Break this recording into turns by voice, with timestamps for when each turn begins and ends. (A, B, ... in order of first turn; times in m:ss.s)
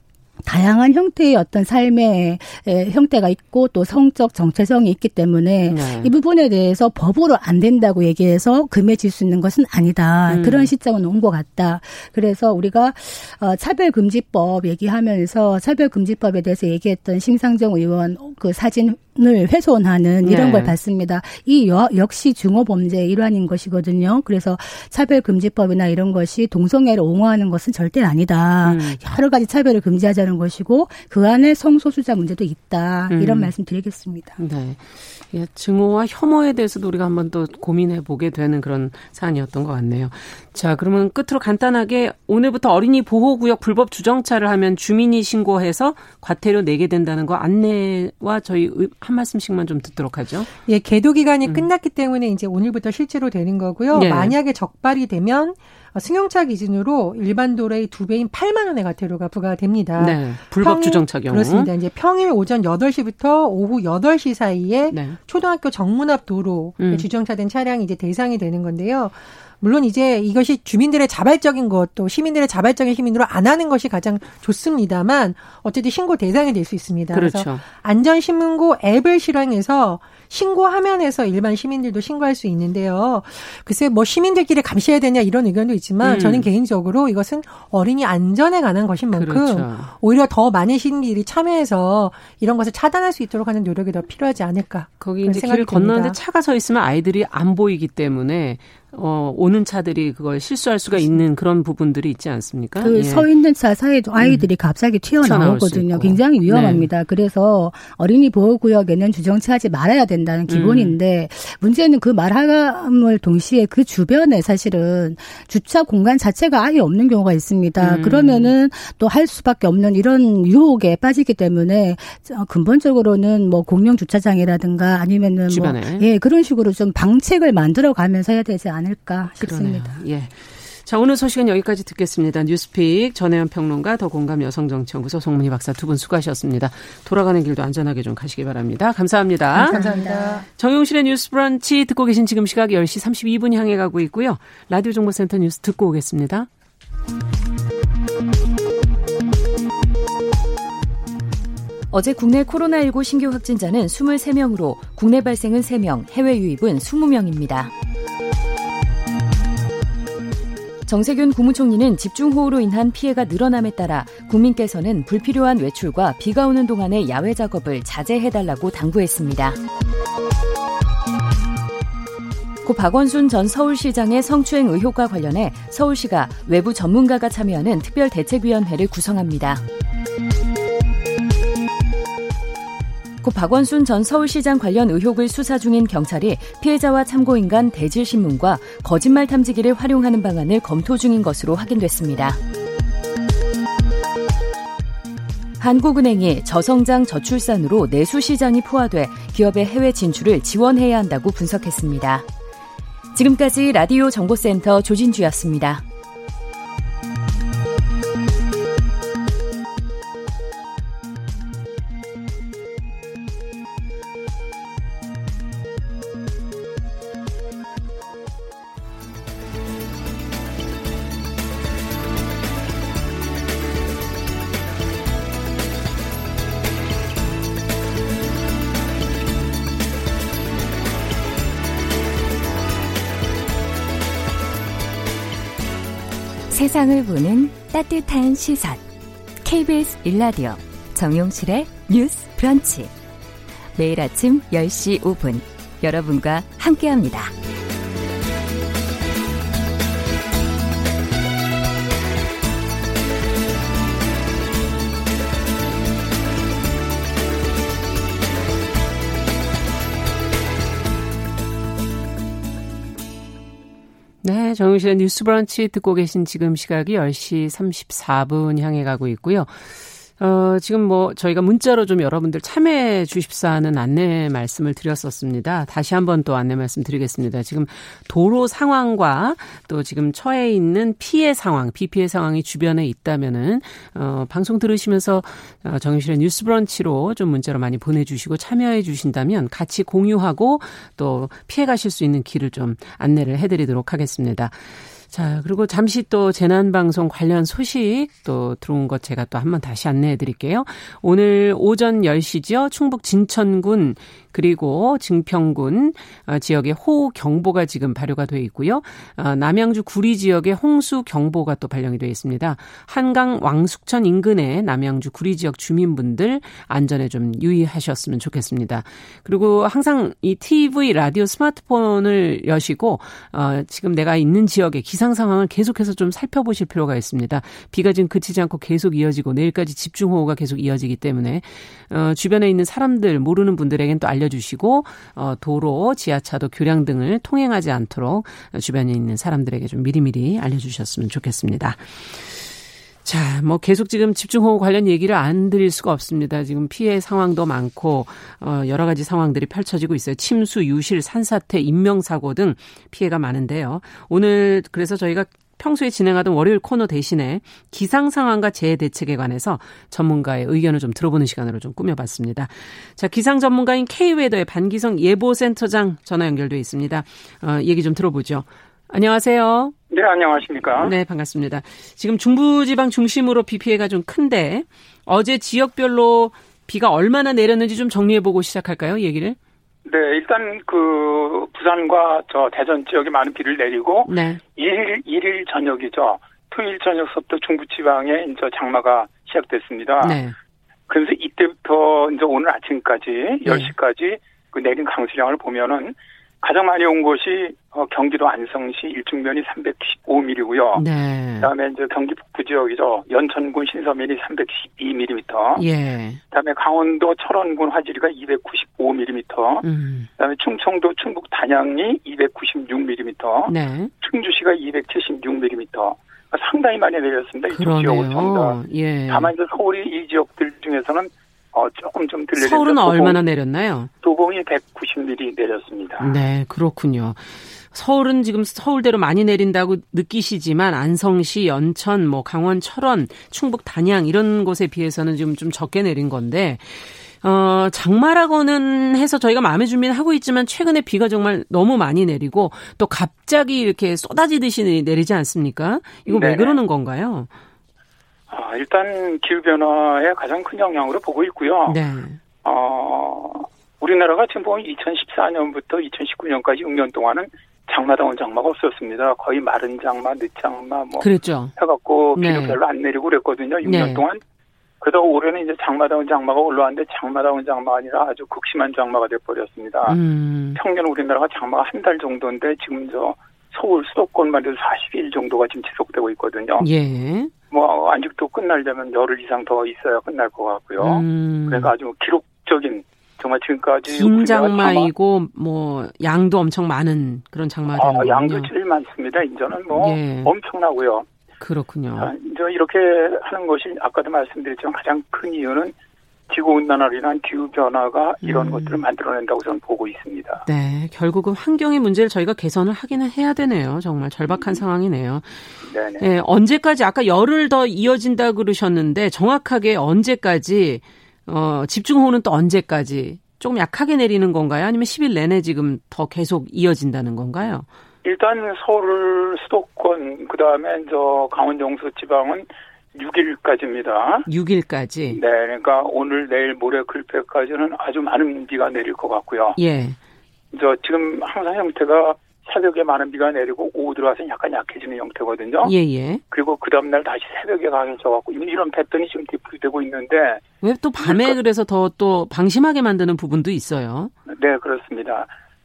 0:00.4-0:34.4 A
0:05.7-0:06.1 B
0:10.3-0:10.7 B
0:20.2-0:20.7 B
0:28.6-0:29.0 B
0:33.1-0:33.5 B
0:34.4-0:50.5 B
0:50.7-1:36.2 C
0:53.9-0:54.4 B
1:00.0-1:01.7 B
1:04.9-1:05.2 B
1:06.8-1:07.1 B
1:17.1-1:17.6 B
1:26.0-1:26.5 B
1:29.1-1:29.9 B
1:35.0-1:43.3 B
1:42.8-2:10.0 A
1:44.2-1:44.5 B
1:45.2-1:46.9 B
1:50.5-1:51.0 B
1:57.8-1:58.5 B
2:05.5-2:06.0 B
2:09.4-2:20.0 B
2:19.5-2:20.4 C
2:19.6-2:20.4 A
2:20.6-2:26.5 B
2:32.1-2:37.4 D
2:41.0-2:47.5 D
2:52.7-2:56.4 D
2:56.9-2:57.7 D
2:58.4-2:59.3 D
3:03.2-3:11.3 D
3:56.5-3:58.8 D
3:59.4-4:02.9 D
4:03.7-4:07.3 D
4:24.2-5:42.5 B
5:43.0-6:09.7 B
6:09.9-6:11.0 E
6:10.8-6:19.4 B
6:19.8-6:30.2 E
6:24.1-6:24.4 B
6:30.0-6:30.4 B
6:30.9-6:40.8 E
6:33.4-6:33.7 B
6:40.7-6:41.5 B
6:41.4-6:45.6 E
6:45.6-6:46.2 B
6:46.3-6:49.6 E
6:49.6-6:50.1 B
6:50.2-7:03.2 E
6:53.5-6:53.9 B
6:57.5-6:59.3 B
7:02.4-7:03.9 B
7:04.0-7:06.2 E
7:06.0-7:27.3 B
7:26.1-7:26.6 E
7:28.3-7:31.8 E
7:31.7-7:32.2 B
7:32.4-7:44.2 E
7:41.0-7:41.5 B
7:42.2-7:42.6 B
7:43.6-7:44.0 B
7:44.8-7:50.0 E
7:49.8-7:50.6 B
7:50.5-7:56.7 E
7:56.6-7:57.3 B
7:57.5-8:04.9 E
8:00.8-8:01.7 B
8:03.9-8:08.5 B
8:07.7-8:11.0 E
8:09.7-8:10.3 B
8:11.4-8:12.1 B
8:12.0-8:15.7 E
8:16.3-8:20.4 E
8:18.2-8:18.8 B
8:20.4-8:37.6 B
8:25.6-8:26.0 E
8:38.0-8:44.3 E
8:44.3-8:45.2 B
8:45.1-8:49.6 E
8:49.6-8:50.0 B
8:50.5-8:55.7 E
8:55.6-8:56.2 B
8:56.3-9:00.4 E
9:00.6-9:04.1 B
9:01.0-9:01.4 E
9:04.3-9:05.3 E